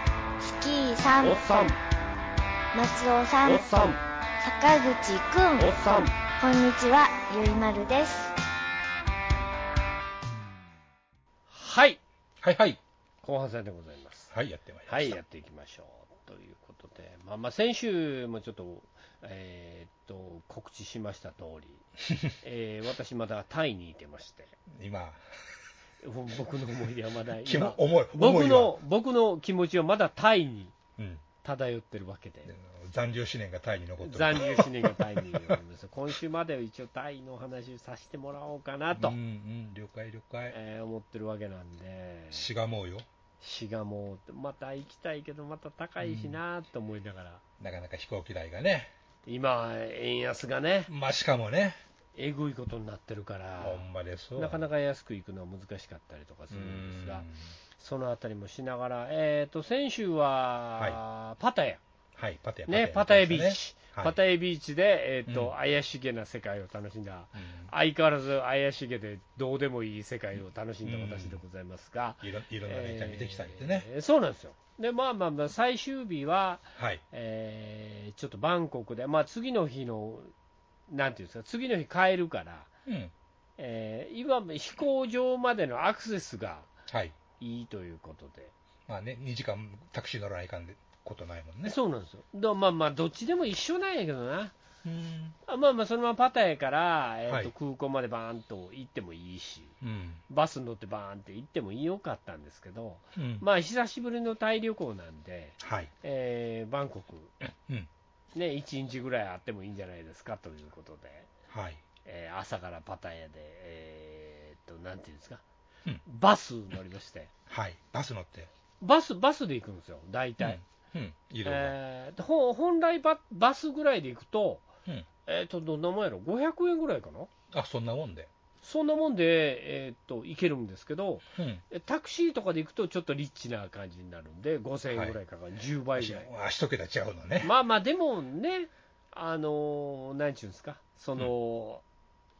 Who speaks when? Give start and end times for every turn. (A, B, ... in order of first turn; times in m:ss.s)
0:00.4-0:01.4 A
0:01.2-0:01.8 B
0:02.7-0:08.3 A
0:03.4-0:04.0 B
0:05.6-0:06.1 B
0:11.5-0:12.0 B
0:12.4-0:12.8 C
0:13.2-0:14.3 B
0:14.3-0:15.2 C
0:14.9-0:21.8 B
0:22.4-0:24.6 B
0:24.7-0:25.2 C
0:26.0-0:30.8 B
0:27.4-0:28.8 C
0:31.0-0:31.2 C
0:31.4-0:32.5 B
0:32.5-0:35.6 C
0:34.0-0:39.2 B
0:39.0-0:40.6 C
0:40.5-0:42.5 B
0:42.3-0:43.1 C
0:43.4-0:47.4 B
0:46.0-0:46.4 C
0:47.6-0:48.9 C
0:49.3-0:50.9 B
0:50.9-0:51.8 C
0:52.2-0:53.8 B
0:53.6-0:54.7 C
0:54.4-1:01.8 B
0:56.5-0:57.5 C
1:02.2-1:04.2 C
1:02.7-1:20.3 B
1:05.3-1:05.5 C
1:07.4-1:07.7 C
1:10.8-1:11.4 C
1:12.2-1:13.9 C
1:16.8-1:17.0 C
1:20.9-1:22.7 B
1:22.9-1:23.1 C
1:23.6-1:26.7 B
1:26.9-1:27.2 C
1:27.4-1:28.5 B
1:28.9-1:31.8 C
1:31.6-1:34.5 B
1:34.8-1:35.4 C
1:35.5-1:39.8 B
1:39.8-1:40.2 C
1:40.3-1:47.3 B
1:43.2-1:43.4 C
1:45.6-1:45.9 C
1:47.4-1:47.9 C
1:48.3-1:51.3 B
1:51.5-1:51.8 C
1:52.0-1:55.4 B
1:56.0-1:57.3 B
1:57.5-1:58.5 C
1:58.8-2:00.6 B
2:00.4-2:01.8 C
2:01.4-2:04.7 B
2:05.2-2:07.3 B
2:07.5-2:08.3 C
2:08.6-2:16.3 B
2:11.3-2:11.6 C
2:14.9-2:15.2 C
2:16.0-2:17.5 C
2:17.4-2:21.8 B